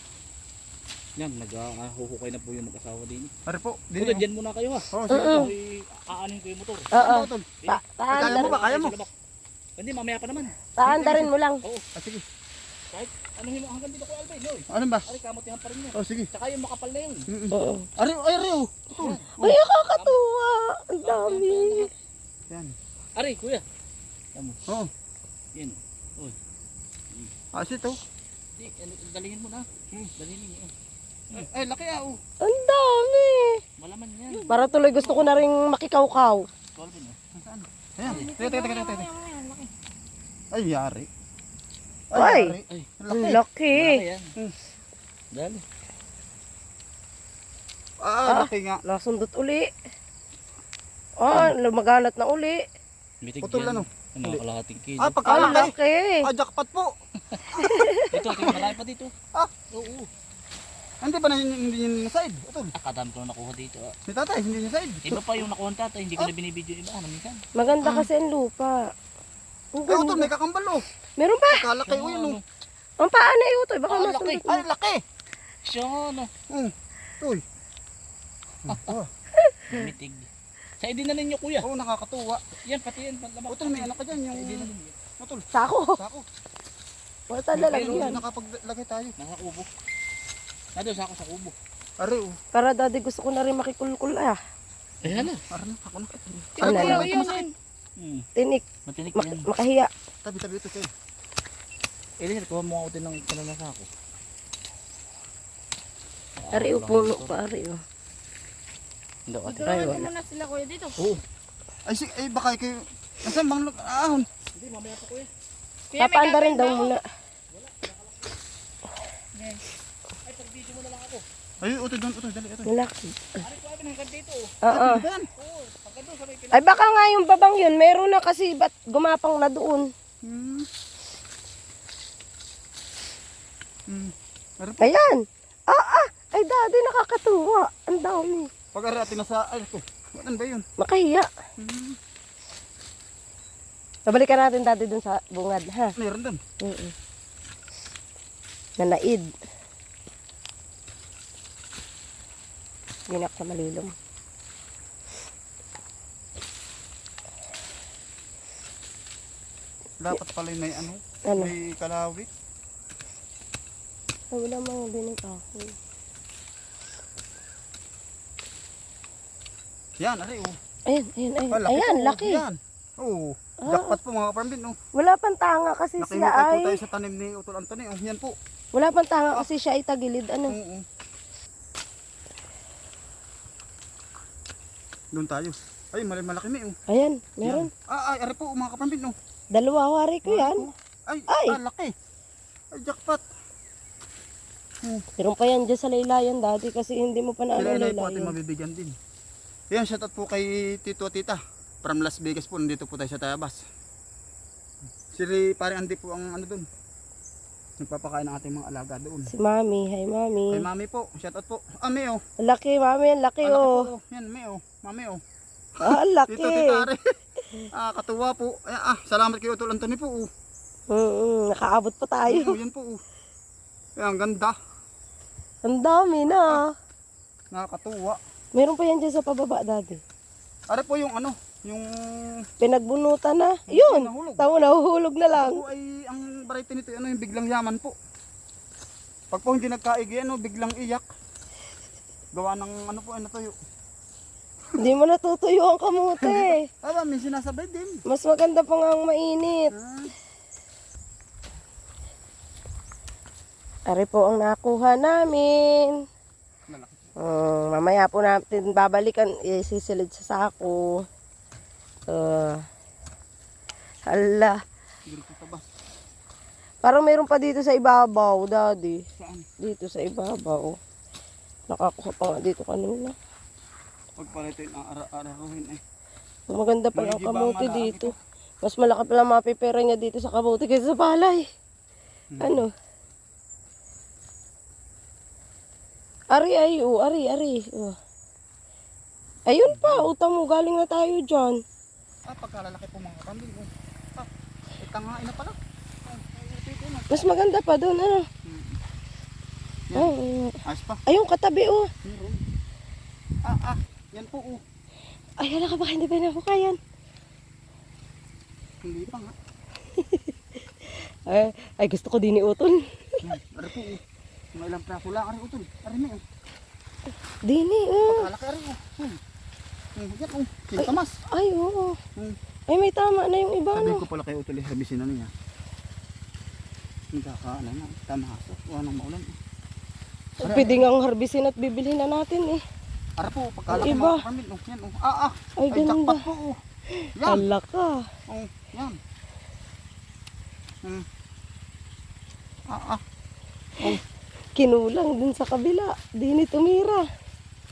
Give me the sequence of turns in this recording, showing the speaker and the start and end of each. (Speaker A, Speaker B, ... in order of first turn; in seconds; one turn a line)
Speaker A: 1.2-3.3
Speaker B: 3.5-4.2
Speaker A: 4.0-6.9
Speaker B: 4.9-5.5
Speaker C: 5.1-5.5
Speaker C: 6.9-8.6
Speaker B: 6.9-7.5
Speaker A: 7.6-9.1
Speaker B: 8.1-9.0
Speaker A: 9.8-10.6
Speaker C: 10.8-11.6
Speaker B: 10.8-11.3
Speaker B: 11.9-12.2
Speaker A: 12.9-17.3
Speaker B: 14.7-15.1
Speaker B: 15.9-16.3
Speaker B: 17.3-19.6
Speaker C: 17.5-17.9
Speaker A: 19.0-19.3
Speaker C: 19.4-21.9
Speaker A: 21.0-21.9
Speaker B: 22.5-22.8
Speaker A: 23.2-23.6
Speaker A: 24.4-24.6
Speaker A: 25.6-26.4
Speaker B: 27.5-28.0
Speaker A: 28.6-30.7
Speaker B: 31.3-32.2
Speaker C: 32.4-33.6
Speaker A: 33.8-35.4
Speaker C: 34.3-36.4
Speaker A: 36.8-37.2
Speaker B: 37.3-39.1
Speaker A: 38.1-38.4
Speaker D: 38.1-39.7
Speaker B: 40.5-41.1
Speaker B: 42.1-43.4
Speaker C: 42.1-42.6
Speaker C: 43.1-44.0
Speaker A: 43.7-44.3
Speaker A: 45.3-45.6
Speaker B: 48.0-48.8
Speaker C: 48.3-49.7
Speaker C: 51.2-52.6
Speaker A: 53.2-55.7
Speaker B: 53.4-54.4
Speaker B: 55.0-56.9
Speaker C: 55.2-56.3
Speaker B: 57.5-58.7
Speaker C: 57.6-58.5
Speaker A: 58.1-59.1
Speaker B: 59.4-59.6
Speaker A: 59.7-60.1
Speaker B: 61.0-62.7
Speaker A: 62.8-64.0
Speaker B: 64.1-65.5
Speaker A: 65.1-67.4
Speaker C: 67.6-68.8
Speaker B: 67.8-68.1
Speaker C: 69.8-70.3
Speaker B: 69.9-70.8
Speaker C: 71.2-71.7
Speaker B: 71.5-72.4
Speaker A: 71.9-72.4
Speaker C: 73.0-74.6
Speaker A: 73.9-74.4
Speaker B: 74.3-75.0
Speaker A: 75.7-76.3
Speaker B: 76.5-77.4
Speaker B: 78.7-79.1
Speaker A: 78.7-79.0
Speaker C: 79.4-79.9
Speaker A: 79.7-81.7
Speaker B: 81.6-82.4
Speaker A: 82.7-85.0
Speaker B: 83.5-85.5
Speaker C: 85.5-86.0
Speaker B: 86.0-86.3
Speaker C: 87.3-88.2
Speaker B: 87.5-89.1
Speaker A: 87.6-88.2
Speaker A: 89.2-89.7
Speaker A: 90.8-91.5
Speaker B: 92.0-92.4
Speaker C: 92.5-94.4
Speaker A: 95.0-95.4
Speaker B: 95.0-97.5
Speaker C: 96.6-97.2
Speaker A: 96.6-97.5
Speaker A: 98.0-98.3
Speaker C: 98.4-99.9
Speaker A: 98.9-99.5
Speaker B: 100.2-100.9
Speaker A: 102.2-103.9
Speaker A: 106.4-107.4
Speaker C: 106.5-107.8
Speaker A: 109.3-110.1
Speaker D: 109.5-111.0
Speaker B: 111.9-114.3
Speaker A: 114.5-115.3
Speaker A: 115.9-117.0
Speaker C: 116.0-117.0
Speaker A: 117.5-118.4
Speaker A: 120.2-121.2
Speaker B: 121.6-122.7
Speaker C: 122.7-123.4
Speaker A: 123.4-124.5
Speaker C: 124.6-125.0
Speaker B: 124.7-125.3
Speaker A: 125.4-126.8
Speaker C: 126.5-129.9
Speaker B: 130.2-130.7
Speaker B: 133.9-134.9
Speaker C: 134.8-138.5
Speaker B: 138.7-140.7
Speaker C: 140.8-141.3
Speaker B: 141.6-142.0
Speaker C: 144.1-145.9
Speaker B: 146.0-146.4
Speaker C: 146.6-146.9
Speaker C: 148.8-149.3
Speaker C: 153.1-153.9
Speaker B: 160.0-162.3
Speaker C: 164.3-165.8
Speaker B: 170.0-170.6
Speaker C: 170.9-172.4
Speaker B: 171.5-174.8
Speaker C: 173.6-174.0
Speaker C: 175.0-176.8
Speaker B: 176.0-178.3
Speaker C: 178.7-180.6
Speaker B: 180.5-180.8
Speaker B: 185.1-186.8
Speaker C: 186.9-187.7
Speaker B: 187.4-189.2
Speaker C: 189.5-190.7
Speaker B: 190.2-191.9
Speaker C: 191.3-191.6
Speaker B: 192.7-193.2
Speaker C: 195.2-198.3
Speaker B: 197.6-199.0
Speaker B: 199.7-203.6
Speaker B: 205.1-206.7
Speaker B: 207.8-209.3
Speaker C: 209.3-210.7
Speaker B: 210.5-212.2
Speaker C: 212.4-213.9
Speaker B: 213.4-215.2
Speaker C: 215.8-216.9
Speaker B: 215.8-217.0
Speaker B: 217.7-220.3
Speaker C: 220.9-222.6
Speaker B: 222.3-223.0
Speaker B: 224.0-224.6
Speaker C: 225.7-226.7
Speaker B: 227.5-228.2
Speaker C: 228.6-230.0
Speaker B: 230.7-232.5
Speaker C: 232.6-235.6
Speaker B: 233.7-234.5
Speaker B: 235.3-238.0
Speaker B: 239.3-241.1
Speaker B: 242.3-243.6
Speaker C: 244.8-246.7
Speaker B: 246.2-248.0
Speaker C: 248.1-249.7
Speaker B: 249.7-250.1
Speaker C: 253.9-256.0
Speaker B: 256.7-257.1
Speaker C: 257.2-261.0
Speaker C: 262.1-262.6
Speaker C: 264.1-264.6
Speaker B: 265.1-265.6
Speaker C: 266.8-269.0
Speaker B: 269.2-269.5
Speaker C: 269.6-270.8
Speaker C: 271.7-273.1
Speaker B: 274.2-275.8
Speaker C: 276.5-278.1
Speaker B: 276.9-278.1
Speaker C: 278.6-281.4
Speaker B: 282.3-282.7
Speaker C: 282.4-282.7
Speaker C: 286.3-288.0
Speaker C: 289.5-291.6
Speaker B: 289.7-290.1
Speaker B: 292.3-297.3
Speaker C: 297.1-298.3
Speaker B: 298.4-298.8
Speaker C: 299.9-301.9
Speaker B: 300.6-301.0
Speaker B: 302.0-302.4
Speaker B: 303.4-304.6
Speaker C: 305.4-306.8
Speaker B: 308.8-309.3
Speaker C: 310.0-310.3
Speaker C: 310.9-313.2
Speaker B: 313.2-314.0
Speaker B: 314.5-316.2
Speaker C: 317.5-318.3
Speaker B: 318.1-319.2
Speaker B: 320.0-321.1
Speaker C: 320.8-322.0
Speaker C: 322.7-324.0
Speaker B: 323.7-325.3
Speaker B: 327.1-329.4
Speaker C: 330.4-332.6
Speaker B: 330.4-330.9
Speaker B: 333.2-336.6
Speaker C: 333.7-334.2
Speaker C: 335.6-336.3
Speaker C: 337.0-338.0
Speaker B: 337.2-337.4
Speaker B: 338.3-339.0
Speaker B: 342.7-343.0
Speaker C: 344.6-347.0